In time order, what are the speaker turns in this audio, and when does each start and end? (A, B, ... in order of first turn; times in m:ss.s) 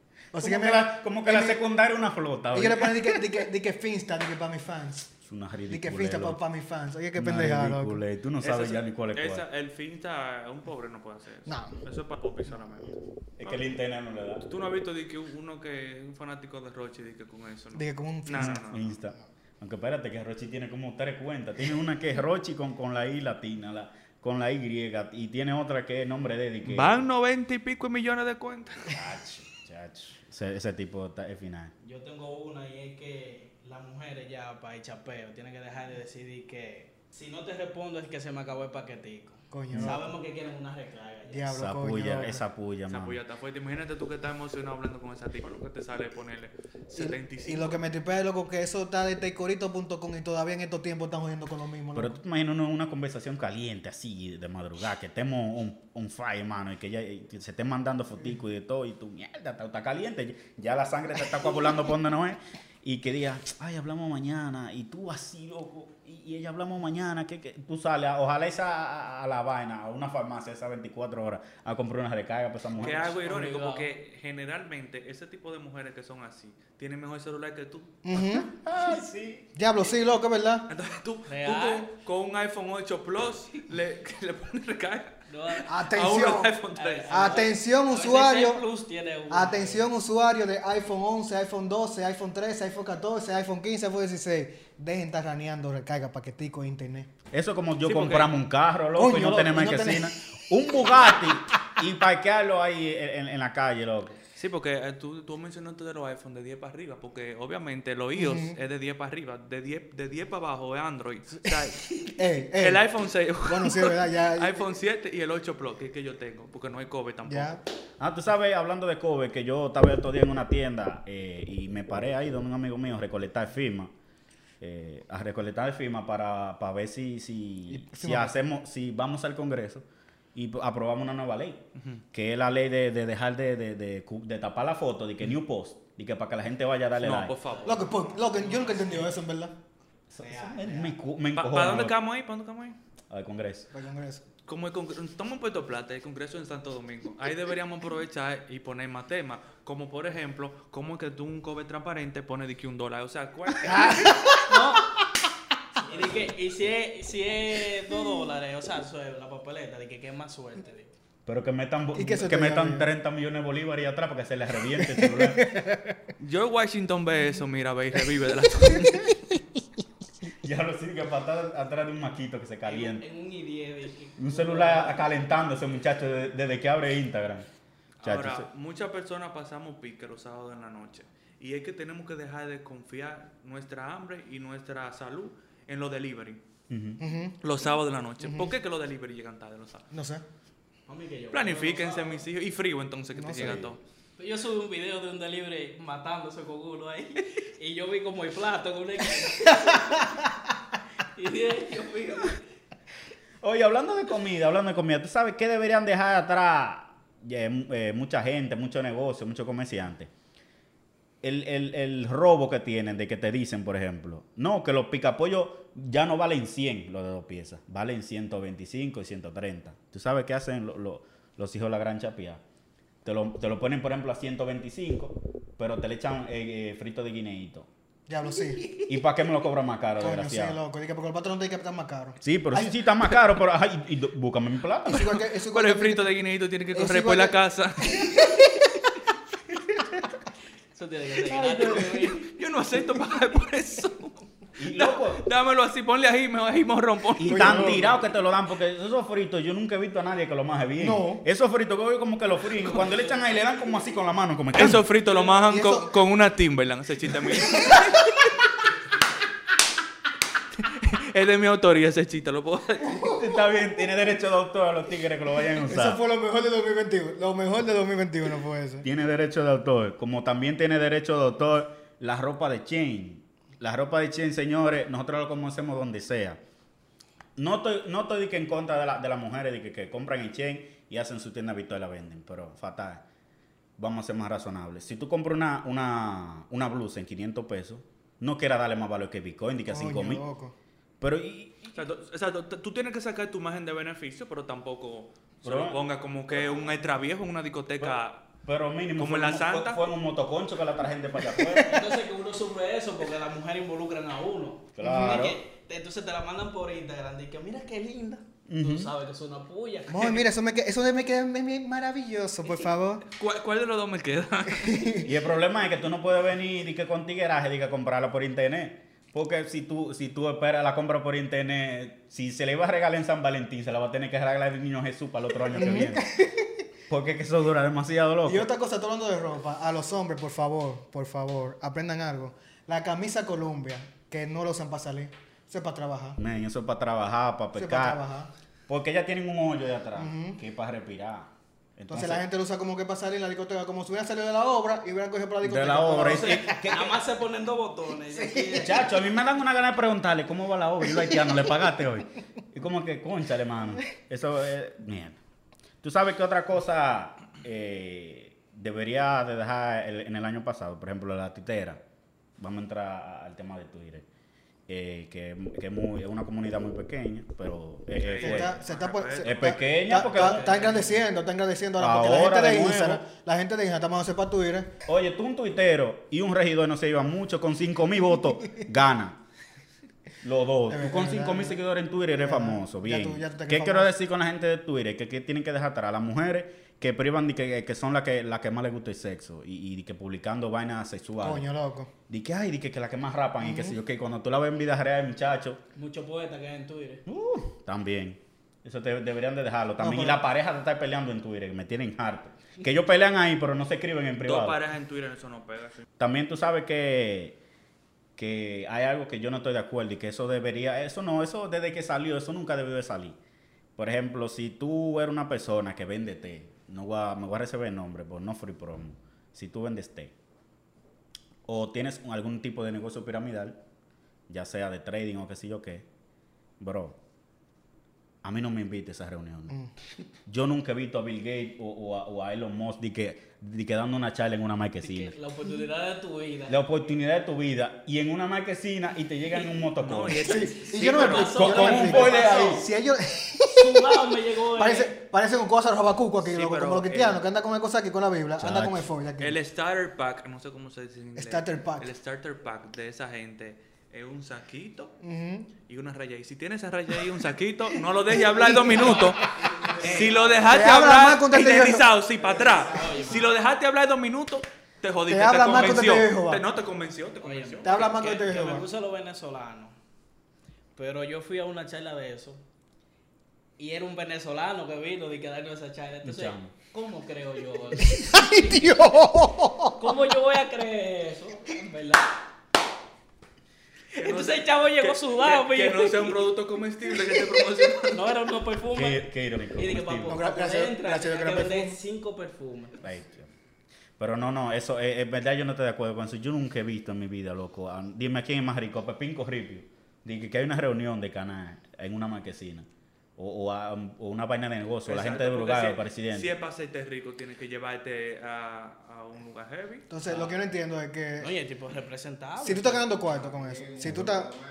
0:00.3-0:01.6 A
0:00.4-0:03.2 B
0:02.5-0:05.1 A
0:05.2-0:06.4 B
0:05.7-0:08.0 A
0:07.2-0:09.4 B
0:08.4-0:13.7 C
0:11.5-0:11.8 A
0:13.4-0:14.4 B
0:14.4-0:18.9 C
0:17.7-0:18.6 A
0:18.4-0:27.0 B
0:26.6-0:29.0 C
0:28.9-0:31.7 B
0:31.8-0:41.5 D
0:39.5-0:40.1 A
0:39.7-0:40.0 B
0:41.3-0:42.4 A
0:41.5-0:43.2 B
0:42.9-0:47.8 C
0:46.9-0:52.2 A
0:51.9-1:13.2 B
1:12.8-1:18.0 C
1:12.8-1:13.9 D
1:18.0-1:18.5 A
1:18.1-1:19.4 B
1:19.6-1:20.7 A
1:20.7-1:27.4 C
1:21.3-1:21.9 D
1:25.3-1:25.7 D
1:25.7-1:26.5 A
1:26.7-1:29.9 D
1:27.1-1:28.6 A
1:29.3-1:37.1 A
1:37.3-1:44.2 B
1:37.8-1:38.3 C
1:39.0-1:40.1 A
1:44.4-1:57.6 C
1:48.2-1:48.6 A
1:52.2-1:52.8 A
1:53.4-1:54.6 A
1:57.2-1:57.6 A
1:58.0-2:03.9 B
2:04.6-2:11.6 B
2:07.7-2:08.4 A
2:11.8-2:12.0 C
2:12.1-2:17.4 B
2:17.0-2:18.1 C
2:17.4-2:19.1 D
2:17.6-2:19.5 A
2:20.1-2:21.9 B
2:20.2-2:21.0 D
2:21.4-2:22.8 C
2:23.1-2:23.7 B
2:23.7-2:24.2 A
2:24.5-2:34.1 C
2:33.6-2:34.6 A
2:34.4-2:34.8 D
2:35.8-2:40.9 D
2:41.2-2:45.5 B
2:41.9-2:42.9 A
2:44.7-2:46.0 A
2:46.2-2:49.2 C
2:50.4-2:53.0 B
2:52.6-2:55.2 D
2:54.2-2:57.4 B
2:58.0-3:06.4 C
2:58.0-2:58.5 B
3:06.7-3:07.0 B
3:07.0-3:07.4 A
3:07.4-3:09.9 C
3:08.2-3:08.5 A
3:09.9-3:10.2 A
3:10.9-3:12.2 D
3:11.3-3:13.8 C
3:13.1-3:13.6 A
3:13.4-3:13.7 B
3:14.2-3:20.1 D
3:21.0-3:22.4 D
3:23.4-3:30.1 B
3:31.2-3:42.4 B
3:43.0-3:47.7 B
3:48.1-3:48.9 A
3:48.8-3:50.6 B
3:50.0-3:52.8 A
3:52.2-3:55.2 B
3:54.9-3:56.1 A
3:55.4-3:58.3 C
3:56.7-3:57.4 A
4:00.7-4:02.3 D
4:01.3-4:07.8 C
4:04.6-4:05.2 B
4:07.2-4:14.8 B
4:07.2-4:08.0 A
4:10.8-4:11.2 A
4:14.5-4:18.1 C
4:14.6-4:15.9 A
4:17.4-4:18.0 A
4:20.6-4:23.2 C
4:23.2-4:26.0 B
4:25.6-4:28.9 A
4:28.8-4:36.4 B
4:37.4-4:43.0 B
4:43.8-4:50.2 B
4:49.7-4:50.5 A
4:51.0-4:51.8 B
4:51.7-4:58.2 C
4:55.4-4:55.8 B
4:57.8-5:01.7 B
4:59.0-4:59.8 C
5:01.3-5:01.9 A
5:01.6-5:10.1 D
5:04.8-5:05.4 B
5:04.8-5:05.2 A
5:08.5-5:08.9 B
5:09.9-5:13.1 A
5:10.0-5:10.2 C
5:13.1-5:15.0 C
5:14.5-5:15.1 A
5:15.0-5:26.0 B
5:25.5-5:26.6 A
5:26.9-5:28.5 B
5:28.2-5:36.2 A
5:36.2-5:38.0 B
5:37.5-5:38.3 A
5:38.7-5:42.2 B
5:40.0-5:40.4 A
5:41.9-5:46.7 A
5:45.4-5:47.0 B
5:46.0-5:48.9 D
5:48.1-5:48.8 A
5:48.6-5:55.2 B
5:55.8-6:01.8 B
6:02.4-6:04.0 B
6:04.7-6:08.6 B
6:07.9-6:09.4 C
6:08.2-6:14.7 A
6:09.2-6:10.4 B
6:10.0-6:11.1 D
6:11.8-6:13.0 B
6:14.8-6:19.2 B
6:20.2-6:31.4 B
6:20.7-6:21.6 A
6:22.1-6:23.9 A
6:31.2-6:31.9 A
6:32.1-6:35.6 B
6:33.4-6:33.8 A
6:35.7-6:37.0 D
6:37.0-6:44.6 B
6:39.8-6:40.2 A
6:44.2-6:45.8 C
6:46.0-6:47.4 B
6:48.2-6:53.2 B
6:53.8-7:00.1 B
7:01.5-7:03.6 B
7:04.3-7:05.8 B
7:06.6-7:07.0 B
7:08.2-7:09.6 B
7:10.3-7:15.1 B
7:14.8-7:16.8 D
7:16.5-7:20.3 B
7:19.8-7:21.9 C
7:20.2-7:29.4 A
7:20.9-7:22.7 D
7:21.3-7:22.6 B
7:23.5-7:24.9 D
7:26.2-7:27.2 C
7:28.4-7:28.9 B
7:29.2-7:34.9 C
7:31.2-7:31.9 A
7:35.0-7:35.5 A
7:35.7-7:48.5 C
7:38.1-7:42.4 A
7:39.4-7:40.2 D
7:42.7-7:43.3 D
7:45.1-7:46.4 A
7:47.2-7:49.8 D
7:47.6-7:48.7 A
7:50.8-7:52.4 D
7:53.6-7:58.8 D
7:56.0-7:56.5 B
7:57.9-8:00.0 A
7:59.7-8:02.1 D
8:03.9-8:06.2 D
8:03.9-8:08.1 C
8:07.6-8:12.8 D
8:08.7-8:10.2 B
8:10.1-8:11.8 A
8:12.8-8:13.3 B
8:14.0-8:26.3 B
8:24.8-8:29.9 C
8:29.9-8:31.3 A
8:30.1-8:30.4 D
8:31.2-8:32.9 D
8:32.4-8:34.4 A
8:33.8-8:34.2 B